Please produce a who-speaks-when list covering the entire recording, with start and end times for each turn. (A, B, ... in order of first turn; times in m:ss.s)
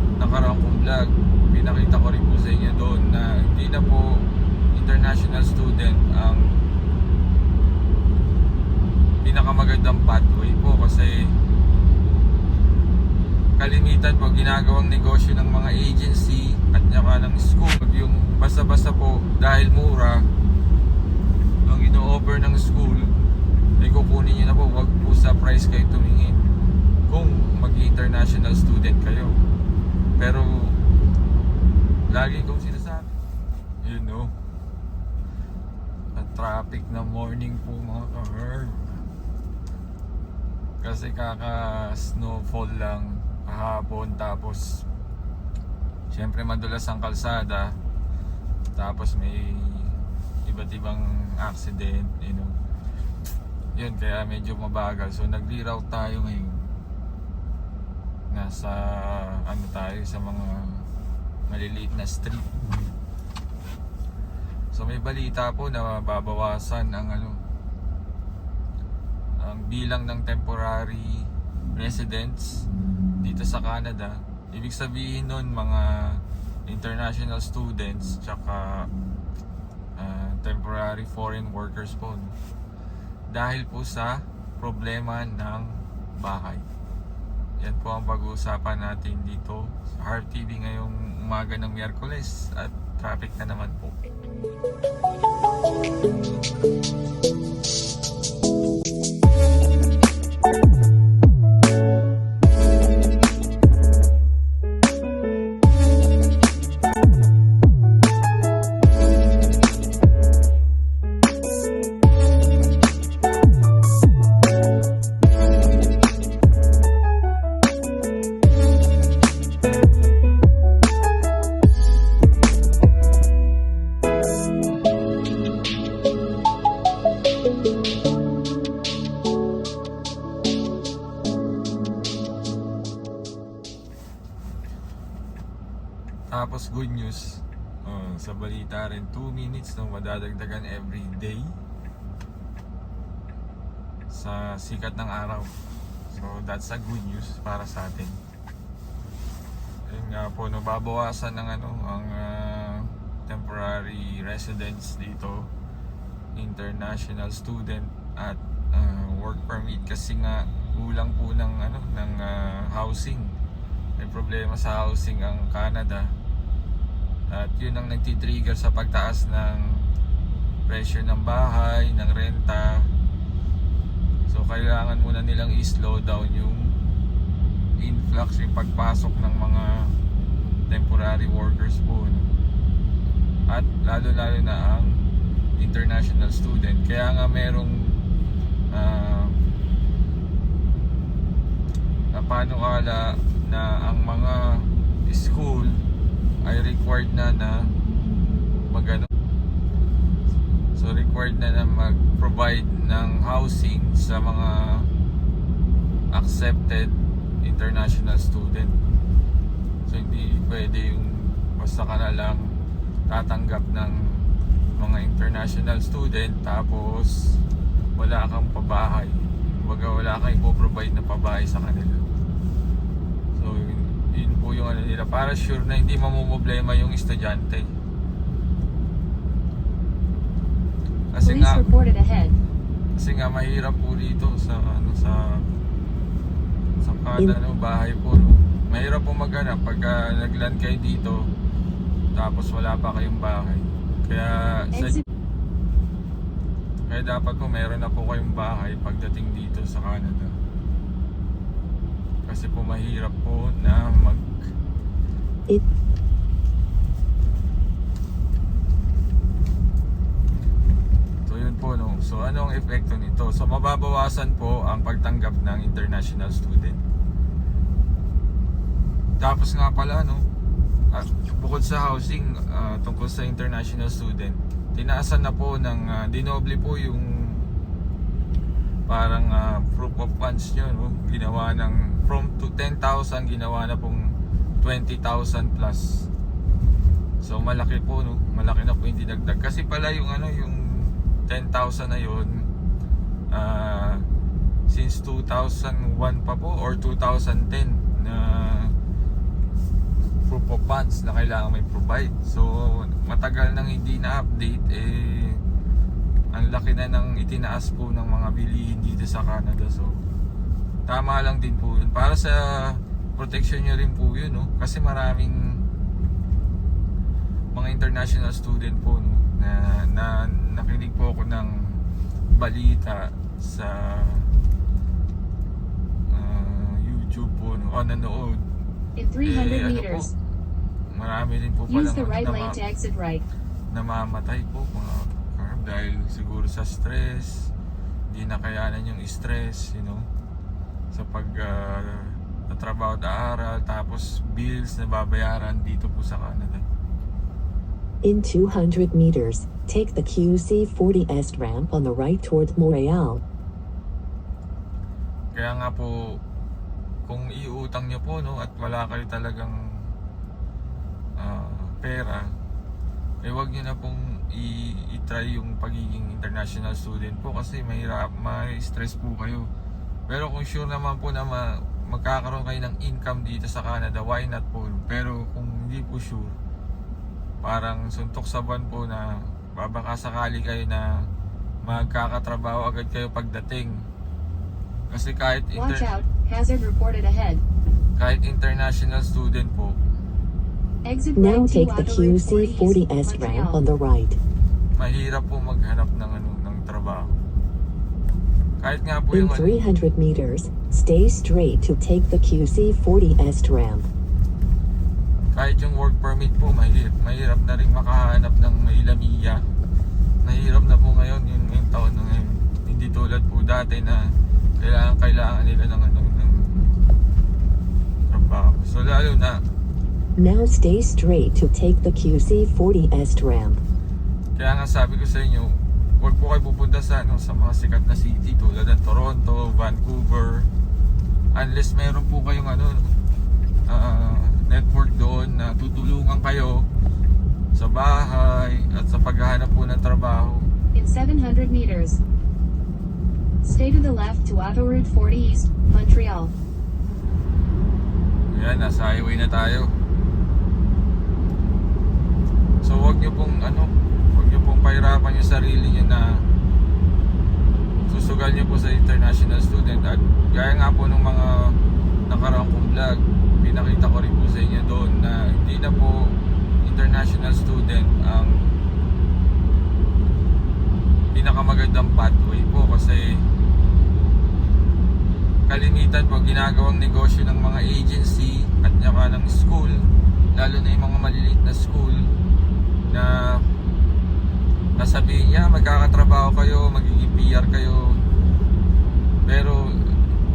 0:00.2-0:04.0 A
0:04.7-0:06.6 A
0:09.2-0:11.3 A
0:13.6-0:20.2 A
0:21.7-0:23.1 A
0:23.8-0:26.5 A
0:27.1-0:29.4 A
0:30.2-0:30.8 A
0:32.1-0:33.1 A
0:33.8-0:34.3 A
0:36.2-0:39.0 A
0:40.8-0:44.8 A
0:46.1-0:47.7 A
0:48.8-0:50.0 A
0:50.5-0:52.5 A
0:53.8-0:56.7 A
0:58.3-1:00.8 A
1:01.5-1:02.5 A
1:04.7-1:07.4 A
1:09.4-1:12.6 A
1:13.2-1:18.9 A
1:20.0-1:22.3 A
1:23.3-1:26.6 A
1:27.6-1:34.0 A
2:16.3-2:21.6 A
2:24.1-2:25.5 A
2:26.1-2:28.2 A
2:29.9-2:35.5 A
2:36.4-2:43.3 A
2:44.0-2:46.1 A
2:47.3-2:49.6 A
2:50.7-2:52.9 A
2:54.3-2:56.7 A
2:57.8-2:59.7 A
3:00.7-3:02.3 A
3:03.5-3:04.9 A
3:05.6-3:07.7 A
3:08.7-3:09.4 A
3:12.1-3:15.8 A
3:16.4-3:17.7 A
3:18.7-3:19.1 A
3:20.8-3:24.9 A
3:26.1-3:28.8 A
3:29.9-3:32.5 A
3:33.1-3:34.0 A
3:34.8-3:37.2 A
3:38.0-3:42.0 A
3:43.4-3:47.7 A
3:51.1-3:51.6 A
3:51.2-3:52.4 B
3:53.0-3:55.4 A
3:56.8-4:01.2 A
4:02.1-4:05.0 A
4:04.7-4:05.0 B
4:06.9-4:10.4 A
4:12.2-4:14.3 A
4:21.2-4:26.8 A
4:29.2-4:30.2 A
4:30.9-4:37.5 A
4:38.9-4:44.0 A
4:44.6-4:46.1 A
4:47.2-4:52.4 A
4:53.3-4:54.0 A
4:54.7-4:58.7 A
5:00.3-5:05.4 A
5:06.3-5:10.0 A
5:10.9-5:15.4 A
5:17.5-5:21.8 A
5:22.3-5:24.3 A
5:26.1-5:28.4 A
5:29.0-5:30.1 B
5:29.2-5:30.1 A
5:30.9-5:32.6 A
5:31.7-5:33.2 B
5:33.7-5:37.5 A
5:38.1-5:40.0 A
5:40.9-5:46.6 A
5:48.0-5:53.2 C
5:55.3-5:55.9 A
5:57.0-5:59.6 A
6:01.2-6:02.3 A
6:03.2-6:09.5 A
6:10.1-6:16.4 A
6:17.4-6:20.9 A
6:21.6-6:23.8 A
6:24.9-6:25.9 A
6:25.5-6:27.4 B
6:28.0-6:29.8 A
6:30.8-6:33.6 B
6:31.2-6:34.2 C
6:34.8-6:37.2 A
6:38.6-6:39.6 A
6:39.1-6:43.9 C
6:45.3-6:49.4 A
6:50.2-6:56.7 A
6:58.1-6:59.4 A
7:00.2-7:03.6 C
7:04.4-7:10.5 A
7:11.3-7:12.9 A
7:13.7-7:16.7 A
7:17.5-7:20.5 A
7:20.7-7:22.0 B
7:23.4-7:26.3 B
7:28.3-7:29.7 A
7:32.6-7:36.2 A
7:37.9-7:41.6 A
7:42.1-7:46.0 A
7:46.6-7:48.4 A
7:51.1-7:53.2 A
7:55.5-8:02.0 A
8:02.9-8:03.4 A
8:04.8-8:08.0 A
8:09.3-8:10.0 A